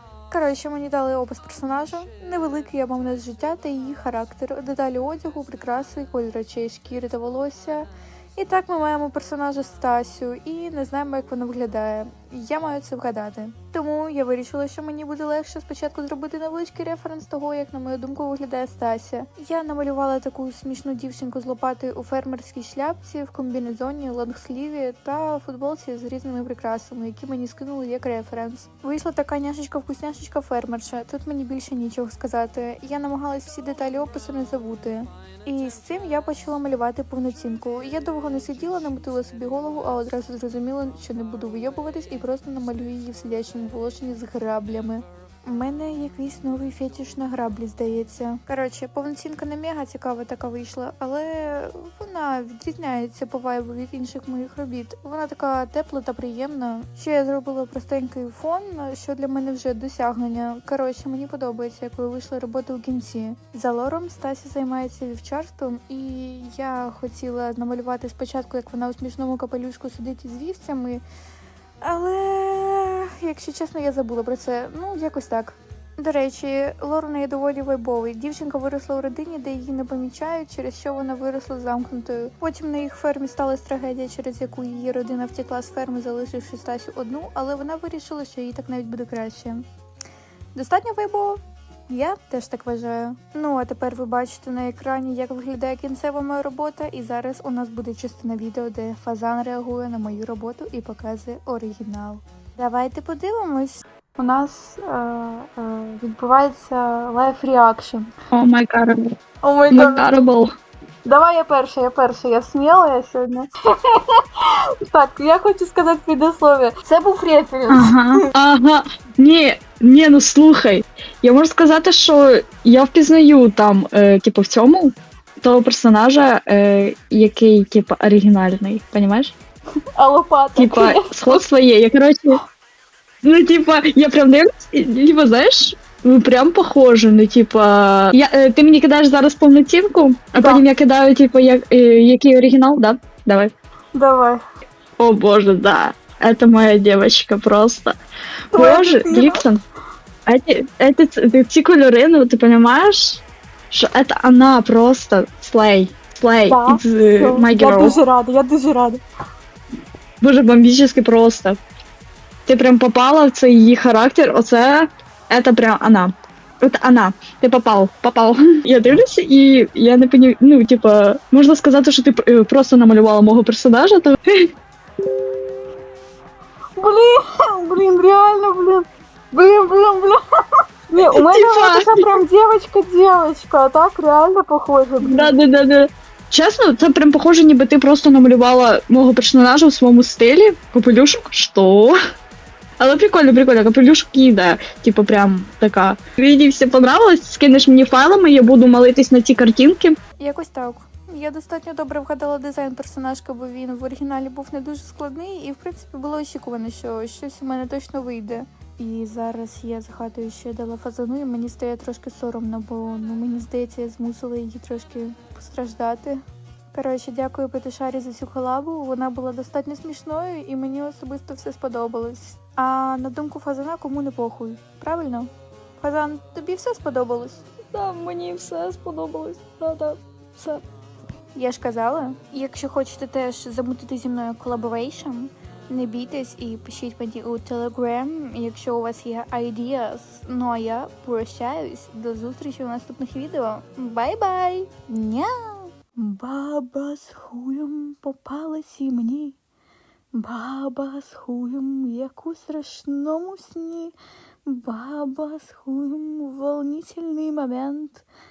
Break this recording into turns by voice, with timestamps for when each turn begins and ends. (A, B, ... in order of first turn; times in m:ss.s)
0:00.3-1:11.0 A
1:11.8-1:29.6 A
1:30.5-1:48.1 A
1:48.3-1:49.1 B
1:49.4-1:50.1 A
1:49.7-1:50.5 B
1:51.0-1:53.5 A
1:54.9-1:57.9 A
1:57.7-2:09.4 B
2:10.0-2:11.4 A
2:10.6-2:12.4 B
2:13.2-2:23.5 B
2:20.4-2:20.6 A
2:23.9-2:24.4 A
2:25.0-2:28.0 B
2:28.5-2:29.6 B
2:28.5-2:29.4 A
2:30.3-2:38.0 B
2:36.5-2:39.0 A
2:40.2-2:41.6 B
2:42.4-2:54.4 B
2:56.8-3:00.2 A
3:00.9-3:05.3 A
3:01.0-3:02.1 B
3:05.0-3:11.9 B
3:12.8-3:19.9 B
3:20.2-3:36.2 A
3:36.7-3:50.6 A
3:51.3-4:09.4 A
4:10.1-4:13.9 A
4:14.4-4:18.0 A